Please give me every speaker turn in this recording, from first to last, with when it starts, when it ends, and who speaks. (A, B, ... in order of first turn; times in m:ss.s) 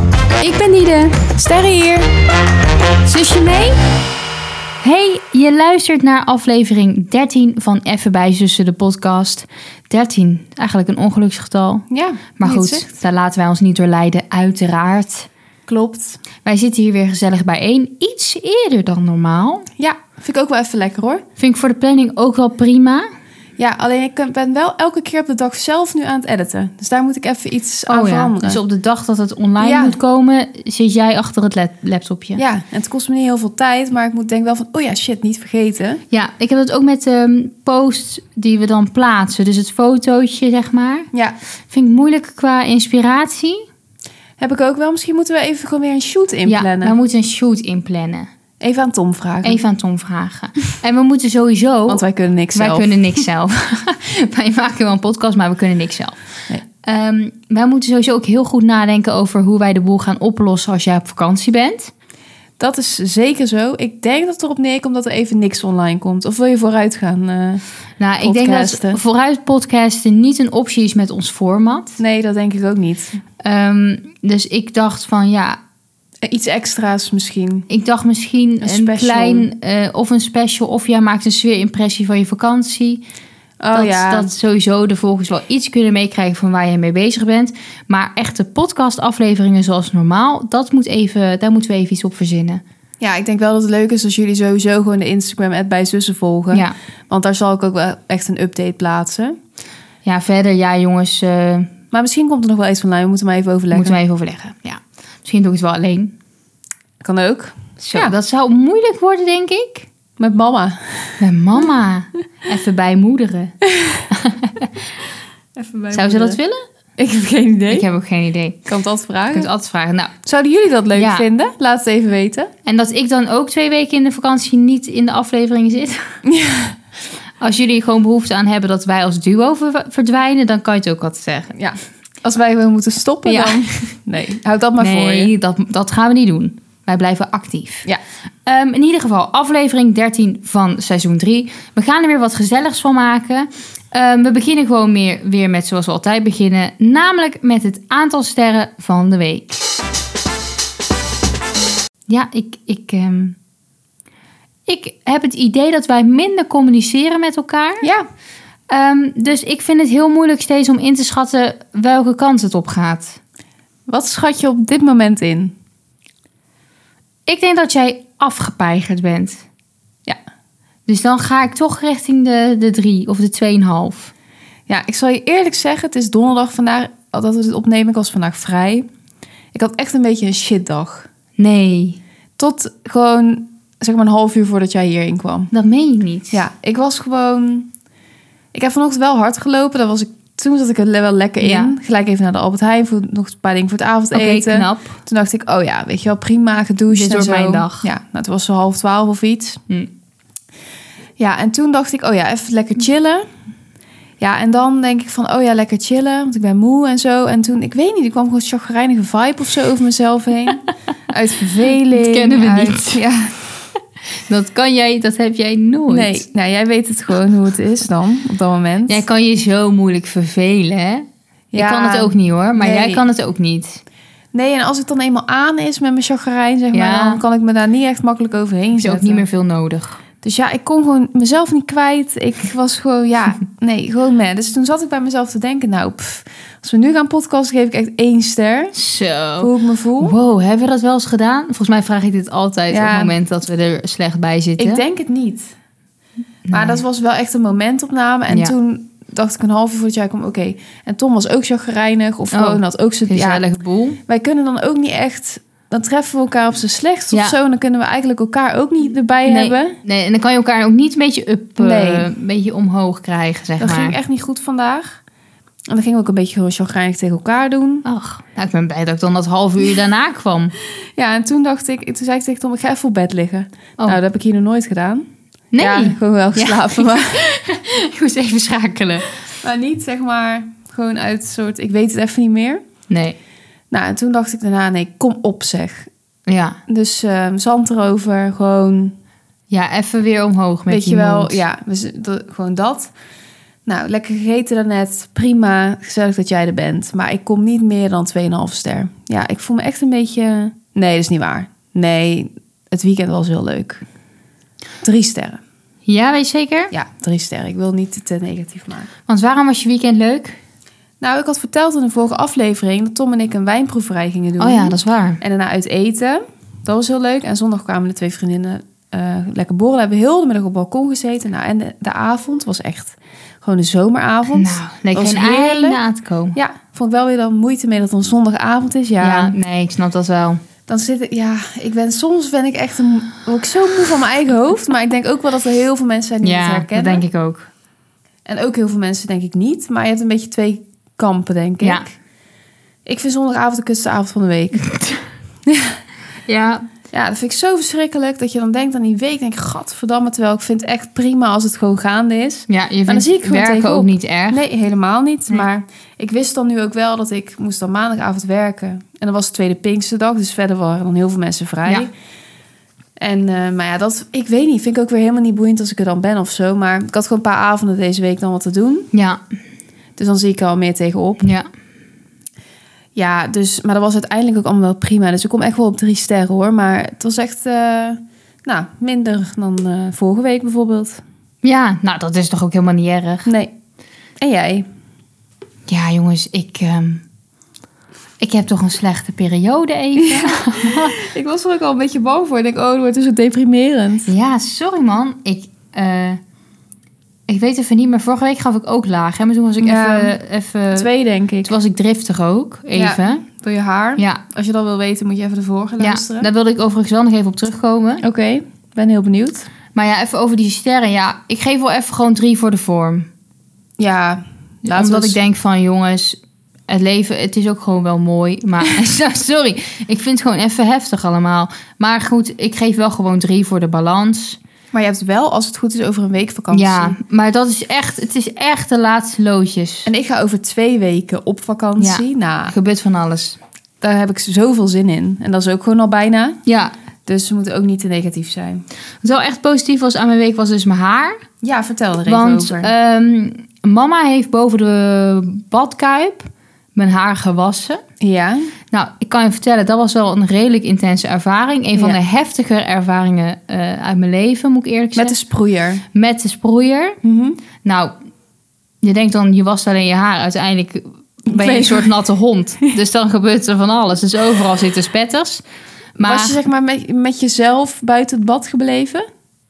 0:00.4-0:01.2 A
0:01.3-0:02.1 B
0:03.0-0:03.8 A
0:04.8-0:11.8 A
0:11.9-0:12.8 B
0:12.4-0:15.3 A
0:15.7-0:16.2 B
0:16.4-0:19.7 A
0:19.8-0:21.2 B
0:21.4-0:23.0 A
0:23.6-0:28.6 B
0:27.9-0:32.4 A
0:29.6-0:30.0 B
0:32.4-0:36.0 B
0:36.1-0:41.1 A
0:41.7-0:43.6 A
0:44.4-0:47.0 B
0:46.4-0:48.3 A
0:48.6-0:49.6 B
0:49.4-0:56.2 A
0:51.9-0:53.0 B
0:56.8-1:01.9 A
1:02.6-1:07.6 B
1:08.0-1:12.0 A
1:08.2-1:09.0 B
1:12.0-1:13.2 B
1:13.4-1:15.6 A
1:16.2-1:17.7 B
1:17.7-1:23.0 A
1:18.6-1:19.5 B
1:23.6-1:24.3 B
1:23.7-1:32.6 A
1:33.0-1:39.4 B
1:40.0-1:41.7 A
1:41.9-1:44.0 B
1:43.7-1:46.1 A
1:47.0-1:48.1 B
1:47.8-1:49.9 A
1:50.2-1:51.2 B
1:51.2-1:53.5 A
1:53.8-1:54.1 B
1:54.1-1:54.8 A
1:55.6-1:56.4 B
1:55.9-1:56.6 A
1:57.0-1:57.8 B
1:57.7-1:58.6 A
1:58.7-1:59.5 B
1:59.3-2:00.1 A
2:00.2-2:02.5 B
2:00.9-2:01.2 A
2:02.6-2:06.1 A
2:06.2-2:06.8 B
2:07.4-2:11.5 A
2:11.5-2:15.3 B
2:13.2-2:13.7 A
2:14.8-2:17.9 A
2:18.4-2:29.6 A
2:32.1-2:33.4 A
2:34.6-2:37.8 A
2:37.8-2:38.0 B
2:38.7-2:43.2 A
2:43.9-2:45.5 B
2:47.2-2:49.4 A
2:50.9-2:54.1 A
2:54.7-2:58.9 B
2:59.5-3:01.1 B
3:01.4-3:02.0 A
3:02.4-3:05.5 B
3:05.5-3:06.4 A
3:06.3-3:07.7 B
3:08.5-3:19.6 B
3:11.4-3:11.7 A
3:14.1-3:14.9 A
3:16.9-3:17.9 A
3:21.2-3:23.2 B
3:24.2-3:33.4 B
3:31.9-3:33.0 A
3:34.3-3:36.2 A
3:35.9-3:39.0 B
3:38.9-3:43.8 A
3:41.5-3:43.0 B
3:44.3-3:49.2 B
3:46.7-3:47.2 A
3:48.8-3:50.0 A
3:50.2-3:58.8 B
3:58.7-4:04.8 A
3:59.4-4:00.2 B
4:02.7-4:03.1 B
4:04.6-4:05.5 B
4:06.4-4:06.8 A
4:06.5-4:13.4 B
4:08.3-4:08.5 A
4:12.3-4:14.0 A
4:14.1-4:19.8 B
4:19.2-4:24.0 A
4:21.6-4:22.1 B
4:23.6-4:25.0 B
4:25.7-4:27.8 B
4:27.8-4:30.5 A
4:31.0-4:35.1 B
4:35.5-4:39.1 A
4:35.6-4:37.2 B
4:39.4-4:42.6 B
4:42.9-4:43.2 A
4:43.7-4:45.9 B
4:46.3-4:46.6 A
4:46.7-4:48.9 B
4:49.5-4:51.4 A
4:50.7-4:52.9 B
4:53.6-5:03.8 B
5:04.8-5:05.4 B
5:05.8-5:06.7 A
5:06.7-5:08.9 B
5:09.1-5:10.4 A
5:11.0-5:25.8 B
5:14.4-5:15.2 A
5:24.3-5:26.4 A
5:26.3-5:29.4 B
5:29.0-5:30.4 A
5:30.7-5:37.0 B
5:36.2-5:37.5 A
5:38.2-5:41.9 B
5:42.8-5:44.6 B
5:44.7-5:45.0 A
5:45.5-5:45.8 B
5:46.3-5:46.6 A
5:46.9-6:01.9 B
5:52.5-5:54.4 A
6:03.0-6:08.9 B
6:08.9-6:09.2 A
6:10.0-6:11.3 B
6:11.2-6:11.5 A
6:13.0-6:21.0 B
6:21.4-6:23.3 A
6:23.2-6:23.5 B
6:24.2-6:24.7 B
6:25.7-6:27.0 A
6:28.2-6:30.9 A
6:30.0-6:34.1 B
6:34.1-6:36.2 A
6:37.3-6:40.9 A
6:39.6-6:40.2 B
6:40.7-6:41.5 B
6:41.4-6:43.2 A
6:42.7-6:46.3 B
6:45.8-6:48.0 A
6:48.0-6:49.5 B
6:49.7-6:53.1 A
6:53.8-6:55.2 B
6:54.6-7:04.4 A
7:04.7-7:07.0 B
7:06.5-7:09.9 A
7:09.8-7:12.5 B
7:11.8-7:13.4 A
7:13.8-7:16.4 B
7:16.4-7:16.7 A
7:17.0-7:18.6 B
7:19.0-7:21.2 A
7:21.4-7:22.7 B
7:22.1-7:27.8 A
7:28.0-7:28.5 B
7:28.7-7:35.2 A
7:35.0-7:35.8 B
7:35.9-7:37.0 A
7:37.0-7:37.4 B
7:37.6-7:37.9 A
7:38.8-7:45.4 A
7:41.3-7:41.9 B
7:46.0-7:46.4 A
7:46.0-7:49.0 B